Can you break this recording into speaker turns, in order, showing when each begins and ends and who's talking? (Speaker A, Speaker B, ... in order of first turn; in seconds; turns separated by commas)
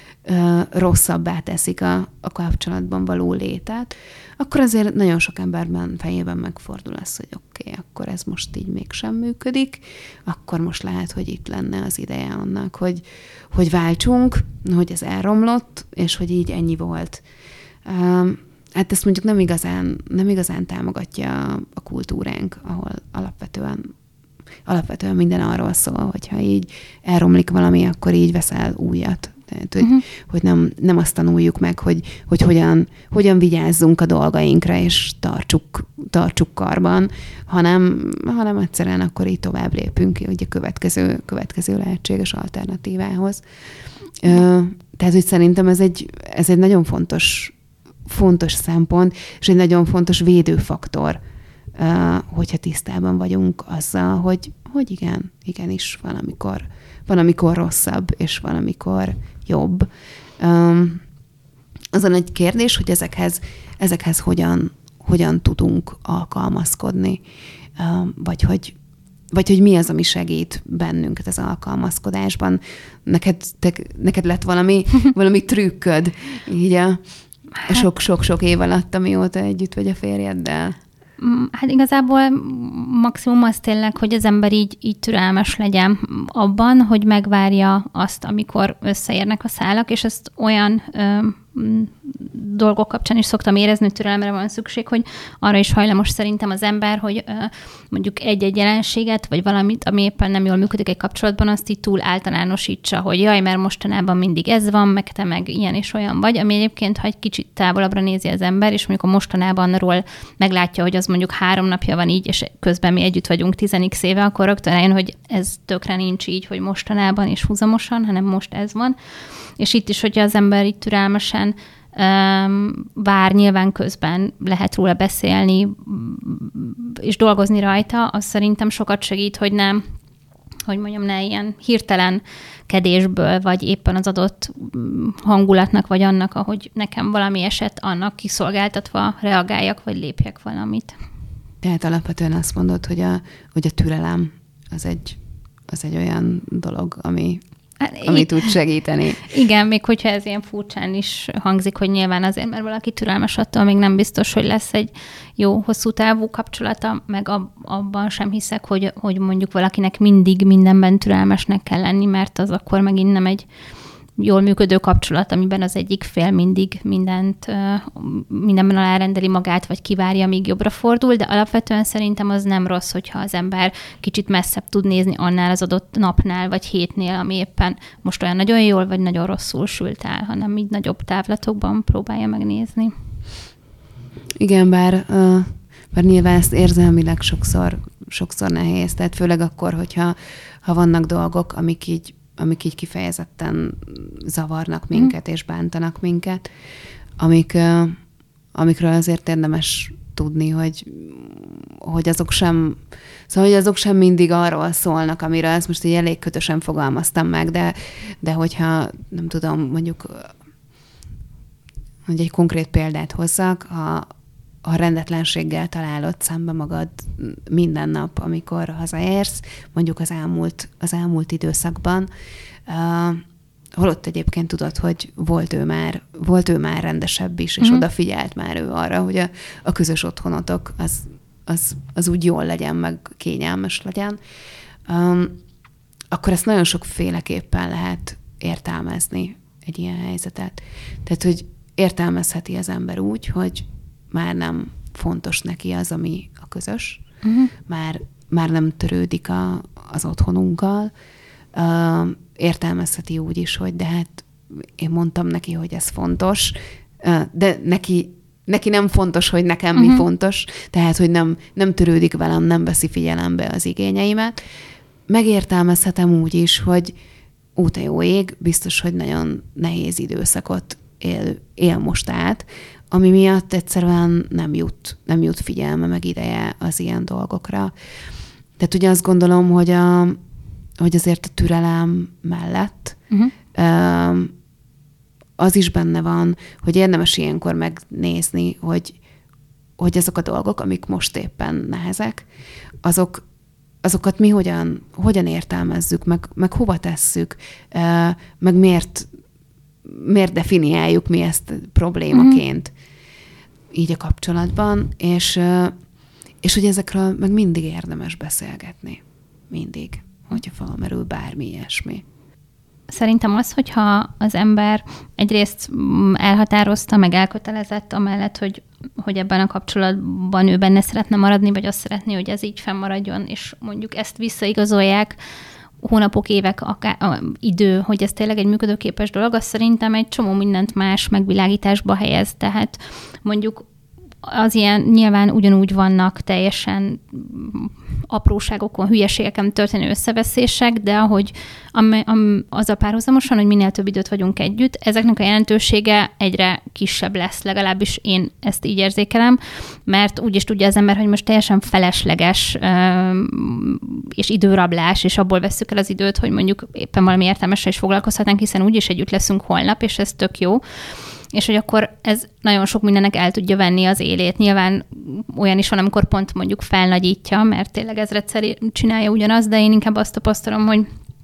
Speaker A: 0.2-17.2, Speaker A: 17.8-23.9, Speaker A: 24.6-43.4, Speaker B: 29.8-30.0, Speaker A: 44.2-47.5, Speaker A: 48.1-51.2, Speaker A: 51.8-61.0, Speaker A: 61.9-67.2, Speaker A: 67.8-68.8, Speaker A: 69.3-77.0, Speaker A: 77.7-80.8, Speaker B: 81.2-119.0, Speaker B: 119.6-129.8, Speaker B: 130.7-140.9, Speaker A: 141.6-147.4, Speaker B: 147.8-148.5, Speaker A: 148.0-149.3, Speaker B: 149.2-163.5, Speaker B: 164.2-182.9, Speaker A: 184.4-196.4, Speaker A: 197.2-198.0, Speaker A: 198.5-210.3, Speaker A: 212.1-214.1, Speaker A: 214.6-222.1, Speaker A: 222.7-234.2, Speaker A: 234.9-235.4, Speaker A: 236.1-247.0, Speaker B: 247.2-247.5, Speaker A: 247.6-250.9, Speaker A: 251.5-264.4, Speaker B: 259.8-260.1, Speaker A: 265.1-267.0, Speaker A: 267.6-277.7, Speaker A: 278.6-280.2, Speaker A: 280.8-283.0, Speaker A: 283.5-284.3, Speaker A: 285.4-289.0, Speaker A: 289.8-292.3, Speaker A: 292.8-293.2, Speaker A: 293.8-299.1, Speaker A: 299.8-302.7, Speaker B: 302.1-302.4, Speaker A: 303.7-305.8, Speaker A: 306.4-312.1, Speaker B: 312.9-325.2, Speaker B: 325.8-333.7, Speaker B: 334.2-360.6, Speaker B: 361.3-370.9